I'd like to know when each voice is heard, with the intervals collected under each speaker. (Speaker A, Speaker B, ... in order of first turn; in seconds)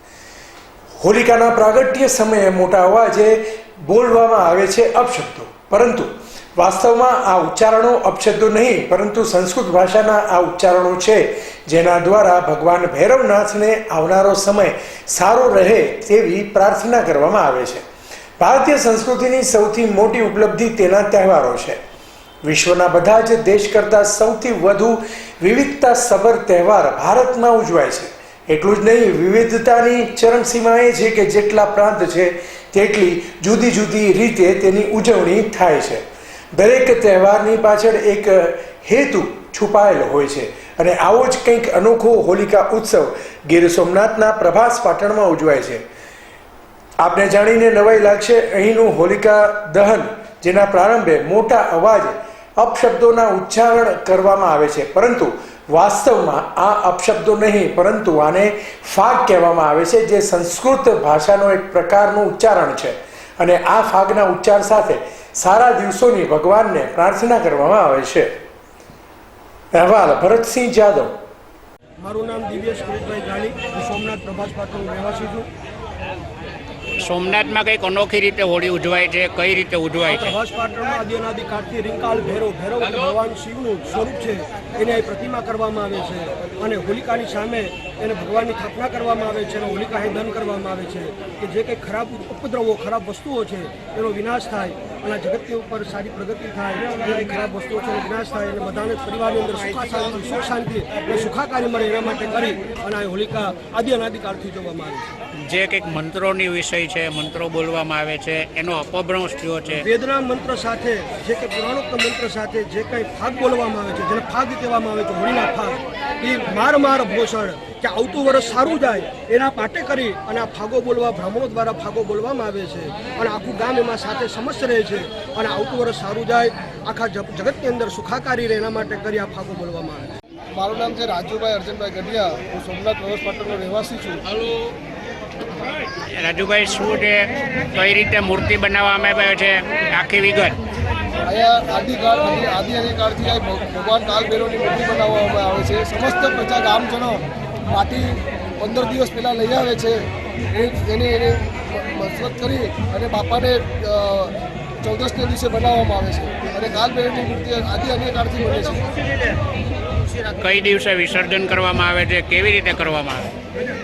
Speaker A: 1.0-17.8, 18.4-21.8, 22.4-45.8, 47.0-68.3, 69.7-71.1
Speaker B: 72.0-75.5, 80.1-105.1, 109.8-130.1
Speaker C: 77.0-80.3, 105.3-109.9, 136.1-140.6, 160.2-163.3
Speaker D: 130.5-134.3, 141.3-159.1